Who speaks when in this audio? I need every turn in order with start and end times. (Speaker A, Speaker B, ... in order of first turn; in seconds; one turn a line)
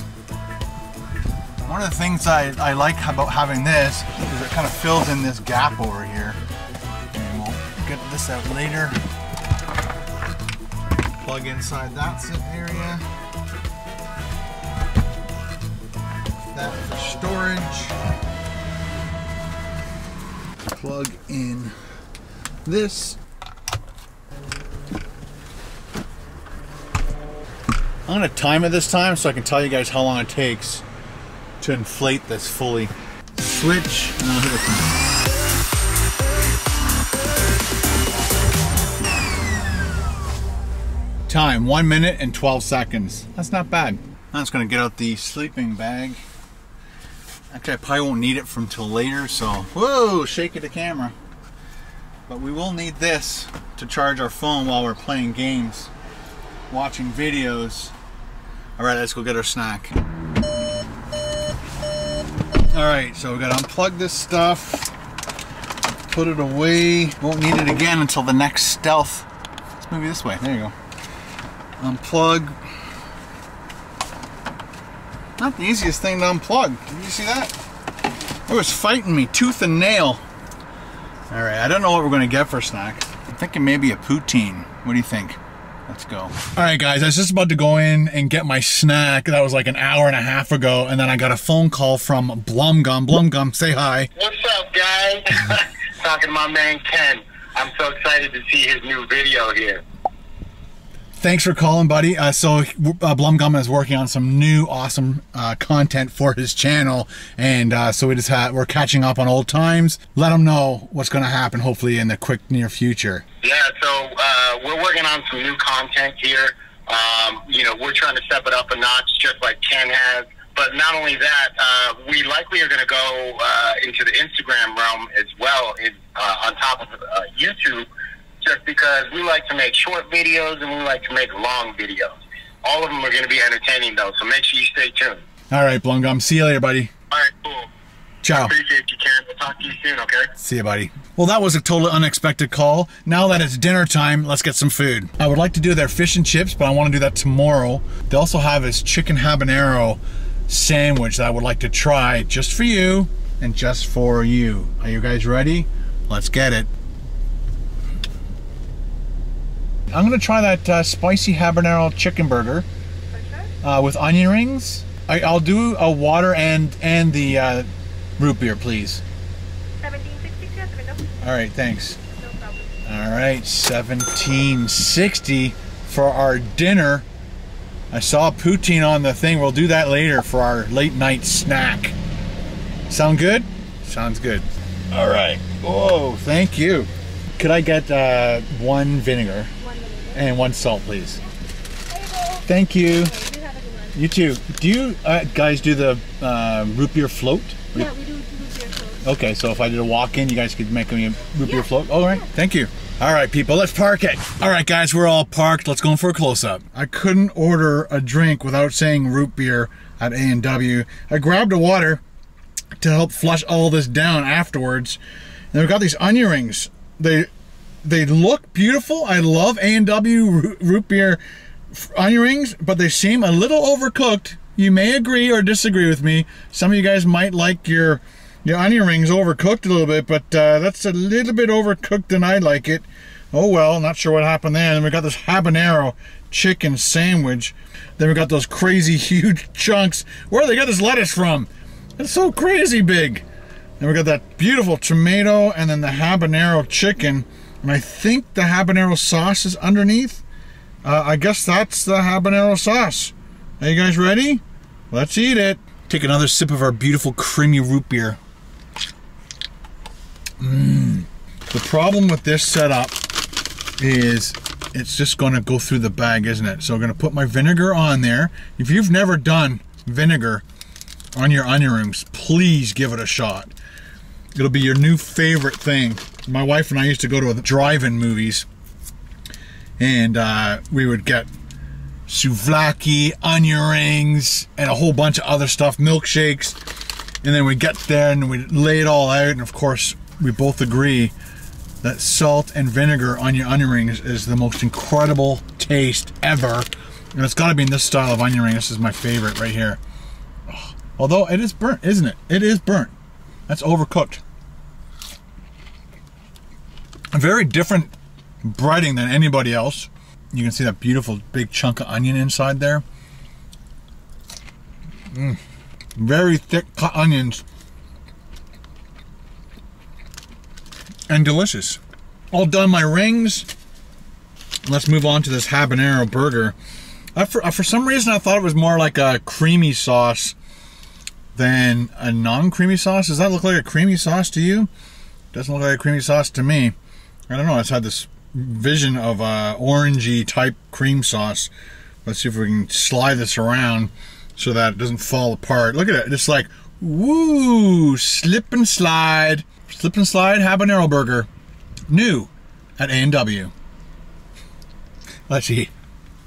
Speaker A: 1.6-6.4
Speaker A: 7.1-9.0
Speaker A: 11.2-13.0
Speaker A: 16.5-17.9
Speaker A: 20.7-21.8
Speaker A: 22.6-23.2
Speaker A: 28.1-30.8
Speaker A: 31.6-35.0
Speaker A: 41.3-46.2
Speaker A: 47.5-51.1
Speaker A: 52.3-55.9
Speaker A: 56.7-57.9
Speaker A: 58.8-60.0
Speaker A: 62.7-64.9
Speaker A: 66.1-69.3
Speaker A: 69.8-70.7
Speaker A: 71.8-72.6
Speaker A: 75.4-77.5
Speaker A: 78.5-80.2
Speaker A: 81.3-94.1
Speaker B: 94.1-99.8
Speaker A: 101.2-113.2
Speaker B: 113.4-127.9
Speaker B: 128.4-135.2
Speaker A: 135.5-136.9
Speaker B: 137.1-137.7
Speaker A: 138.2-138.5
Speaker B: 138.3-140.3
Speaker A: 140.4-156.7
Speaker A: 159.9-162.7
Speaker C: 163.1-163.5
Speaker A: 163.6-169.0
Speaker C: 169.8-171.1
Speaker A: 171.2-172.0
Speaker C: 172.1-172.7
Speaker A: 172.8-177.1
Speaker A: 177.9-181.9
Speaker A: 182.9-189.5
Speaker C: 189.6-190.3
Speaker A: 190.1-191.2
Speaker C: 191.9-194.0
Speaker A: 192.4-193.1
Speaker A: 193.9-197.9
Speaker C: 197.7-199.1
Speaker A: 199.0-212.0
Speaker C: 201.4-202.3
Speaker A: 212.8-215.0
Speaker A: 215.5-217.3
Speaker A: 217.8-243.2
Speaker A: 243.8-250.2
Speaker A: 250.8-258.2
Speaker A: 260.4-263.1
Speaker A: 263.8-270.4
Speaker A: 271.1-273.5
Speaker A: 274.3-278.4
Speaker A: 279.8-281.3
Speaker A: 282.1-286.6
Speaker A: 287.2-291.1
Speaker A: 291.8-299.8
Speaker A: 300.5-302.9
Speaker A: 303.5-304.2
Speaker A: 307.1-307.9
Speaker A: 308.4-312.8
Speaker A: 315.1-315.4
Speaker A: 315.9-317.4
Speaker A: 321.1-321.8
Speaker A: 322.3-323.5
Speaker A: 324.6-326.6
Speaker A: 327.1-330.4
Speaker A: 331.3-334.7
Speaker A: 335.3-336.7
Speaker A: 337.3-341.5
Speaker A: 342.0-351.3
Speaker A: 351.9-353.5
Speaker A: 355.3-355.7